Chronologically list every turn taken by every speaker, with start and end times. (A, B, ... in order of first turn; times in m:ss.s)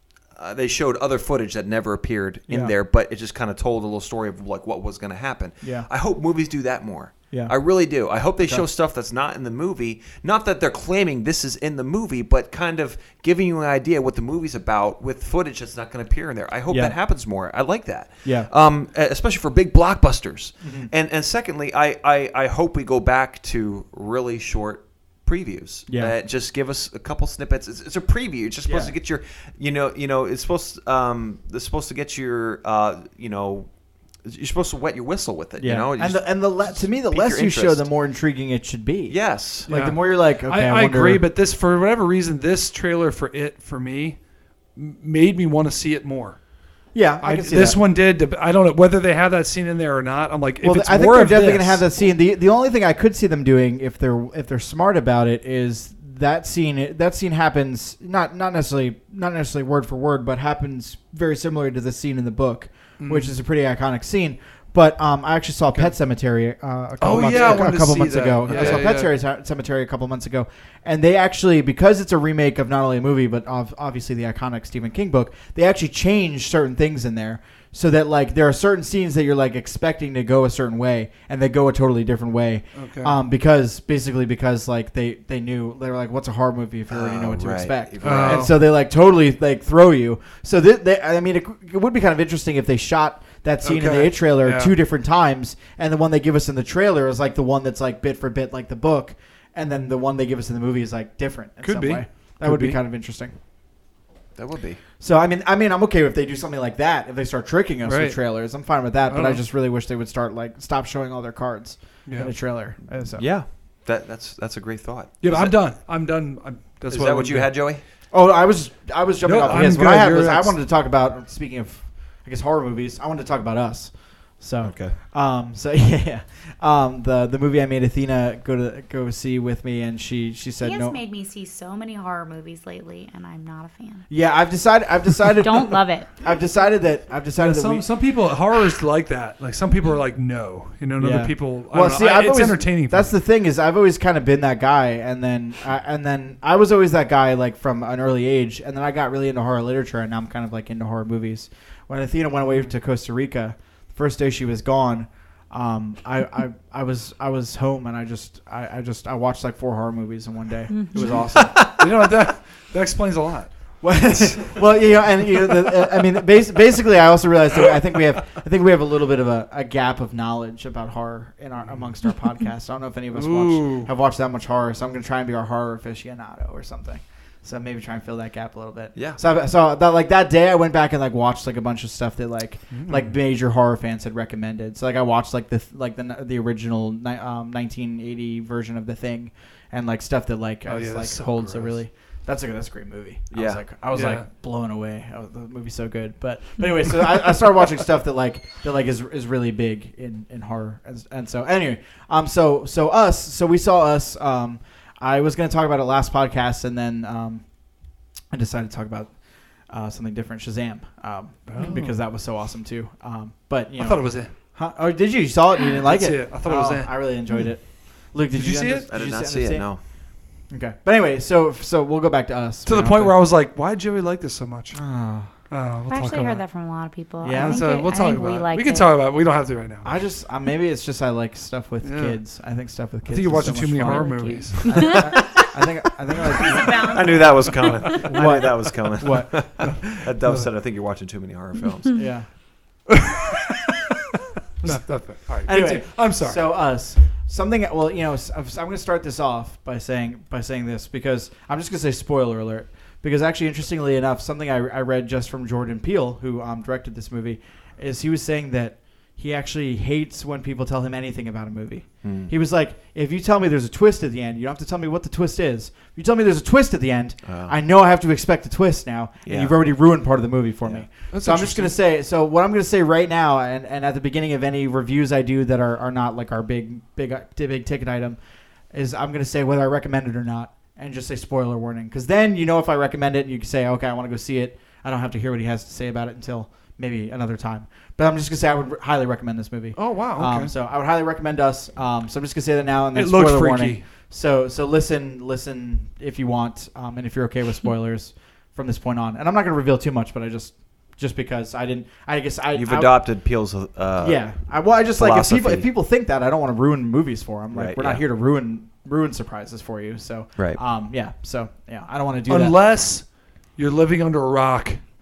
0:00.3-0:33.7 A
0:02.5-0:02.7 B
0:05.6-0:05.9 B
0:16.7-0:17.0 B
0:18.2-0:18.5 B
0:20.6-0:20.9 B
0:25.9-0:26.1 B
0:28.7-0:28.9 B
0:34.2-0:37.9 A
0:35.6-0:41.2 B
0:39.1-0:39.7 A
0:39.7-0:44.2 C
0:44.7-0:46.4 C
0:46.9-0:47.8 B
0:47.2-0:52.0 C
0:50.6-1:43.3 B
1:03.0-1:03.3 C
1:07.0-1:09.1 C
1:07.3-1:07.7 A
1:08.5-1:08.8 A
1:22.7-1:23.2 C
1:26.9-1:28.5 A
1:28.0-1:28.5 C
1:33.6-1:34.7 C
1:41.6-1:42.8 C
1:44.4-1:44.8 A
1:45.0-1:53.2 B
1:47.8-1:48.2 C
1:49.1-1:49.4 C
1:52.0-1:52.3 C
1:53.2-1:55.5 A
1:55.2-1:57.5 C
1:56.9-1:57.8 A
1:58.1-2:11.0 B
1:59.2-2:00.6 C
2:04.6-2:05.0 A
2:10.6-2:14.1 D
2:14.1-2:17.9 B
2:15.3-2:16.2 D
2:17.3-2:23.1 C
2:21.0-2:41.7 B
2:40.7-2:41.2 D
2:41.0-2:43.5 C
2:43.8-3:27.4 B
2:53.1-2:53.9 C
3:02.7-3:03.1 C
3:10.6-3:11.8 C
3:13.3-3:13.6 A
3:13.9-3:14.2 C
3:28.3-3:29.1 B
3:29.7-3:39.7 B
3:31.5-3:32.0 C
3:33.8-3:34.3 C
3:35.8-3:37.2 C
3:38.3-3:38.9 C
3:38.9-3:39.8 A
3:40.5-3:43.2 B
3:42.6-3:44.8 C
3:44.7-3:45.3 B
3:45.5-3:46.4 C
3:45.9-3:48.9 D
3:47.2-3:47.8 B
3:47.3-3:49.9 C
3:49.8-3:57.2 B
3:51.8-3:52.2 C
3:53.1-3:55.1 C
3:53.8-3:55.4 D
3:56.3-3:58.0 D
3:56.7-4:02.0 A
3:58.0-3:58.4 C
3:58.0-3:59.8 B
4:00.2-4:00.5 C
4:01.9-4:02.3 B
4:02.9-4:03.7 C
4:04.6-4:06.6 C
4:05.4-4:38.2 B
4:22.0-4:22.3 A
4:27.2-4:27.5 A
4:29.2-4:29.6 A
4:31.1-4:31.7 C
4:38.7-5:02.9 B
4:49.8-4:50.5 C
4:52.9-4:53.8 C
5:02.5-5:04.3 A
5:04.0-5:12.6 B
5:04.9-5:05.7 A
5:07.5-5:08.0 A
5:10.4-5:10.6 A
5:12.3-5:14.8 C